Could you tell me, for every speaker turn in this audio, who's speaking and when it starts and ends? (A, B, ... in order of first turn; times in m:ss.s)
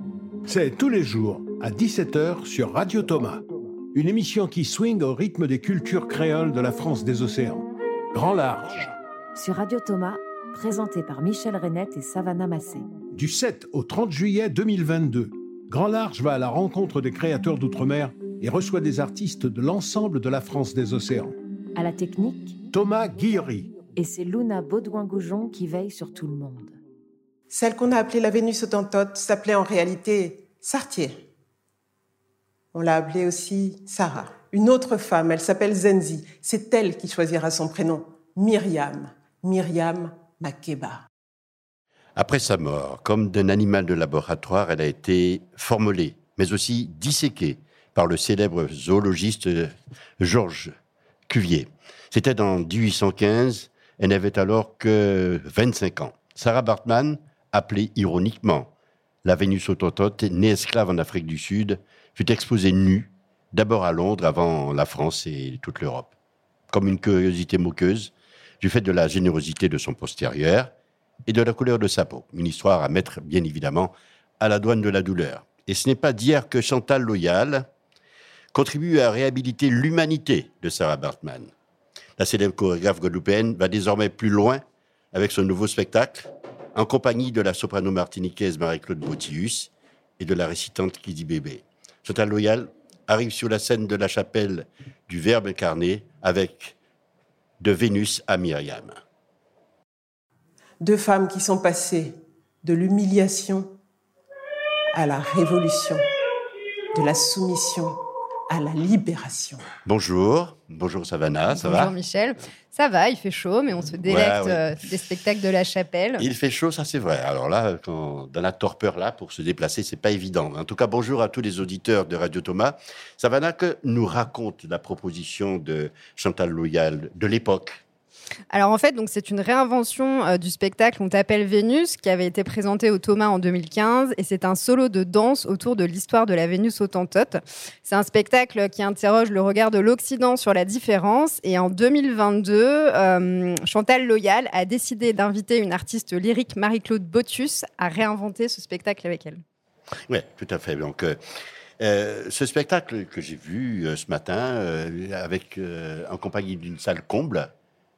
0:00.4-0:08.9 A
0:09.3-0:12.9 B
0:13.1-0:21.4 A
0:21.8-0:22.6 B
0:22.7-0:23.7 A
0:24.0-0:26.8 B
0:27.5-0:31.2 C
0:32.7-0:41.0 C
0:42.2-0:50.7 D
0:51.3-0:58.7 D
0:59.2-1:06.1 D
1:06.7-1:10.7 D
1:11.3-1:17.6 D
1:18.5-1:21.5 D
1:22.2-1:36.7 D
1:37.6-1:39.0 D
1:40.8-1:43.8 C
1:44.9-1:46.0 C
1:46.9-1:48.0 C
1:48.5-1:49.6 C
1:49.8-1:52.0 D
1:51.5-1:56.2 E
1:54.0-1:54.6 D
1:56.2-2:07.8 D
2:08.5-2:29.4 E
2:30.1-2:31.2 D
2:31.8-2:37.5 D